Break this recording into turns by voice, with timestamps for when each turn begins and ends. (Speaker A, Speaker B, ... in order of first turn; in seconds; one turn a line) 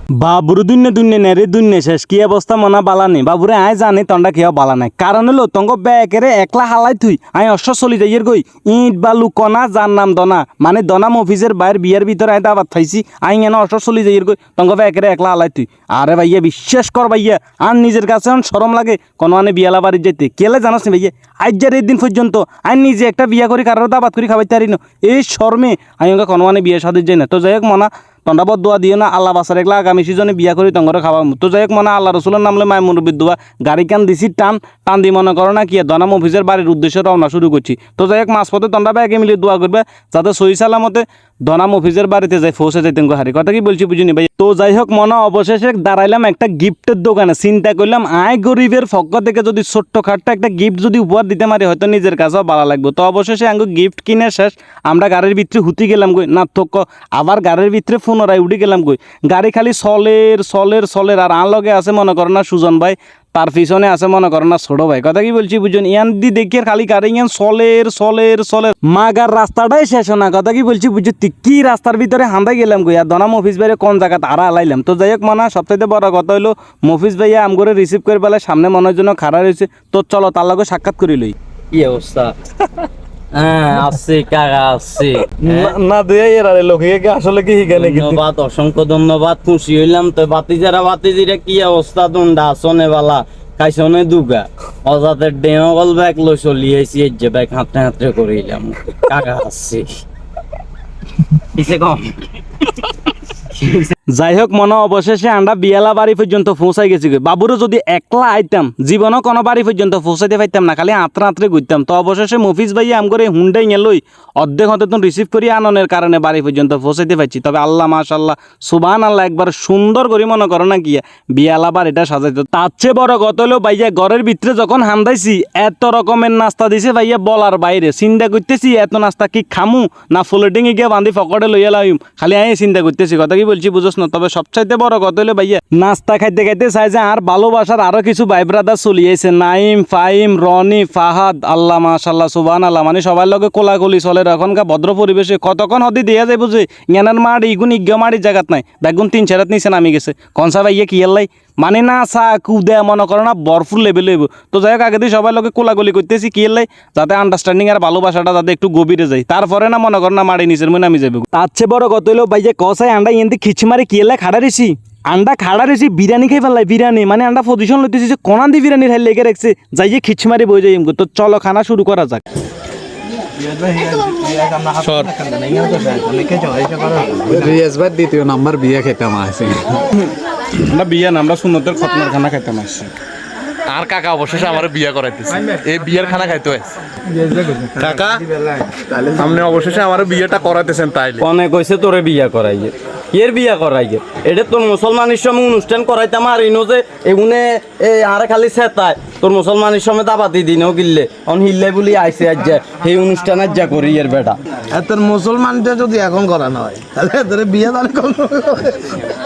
Speaker A: 0.2-81.3
Speaker B: 81.7-82.3
Speaker B: 83.3-85.8
Speaker A: 85.4-88.2
Speaker B: 87.7-99.9
Speaker B: 101.5-102.2
Speaker B: 103.5-103.9
Speaker A: 104.1-172.2
Speaker C: 173.4-177.6
Speaker D: 177.3-179.7
Speaker A: 180.7-182.9
Speaker E: 183.7-186.7
Speaker C: 187.2-187.8
Speaker E: 187.8-188.2
Speaker E: 189.0-191.2
Speaker B: 191.2-204.4
Speaker C: 204.7-209.0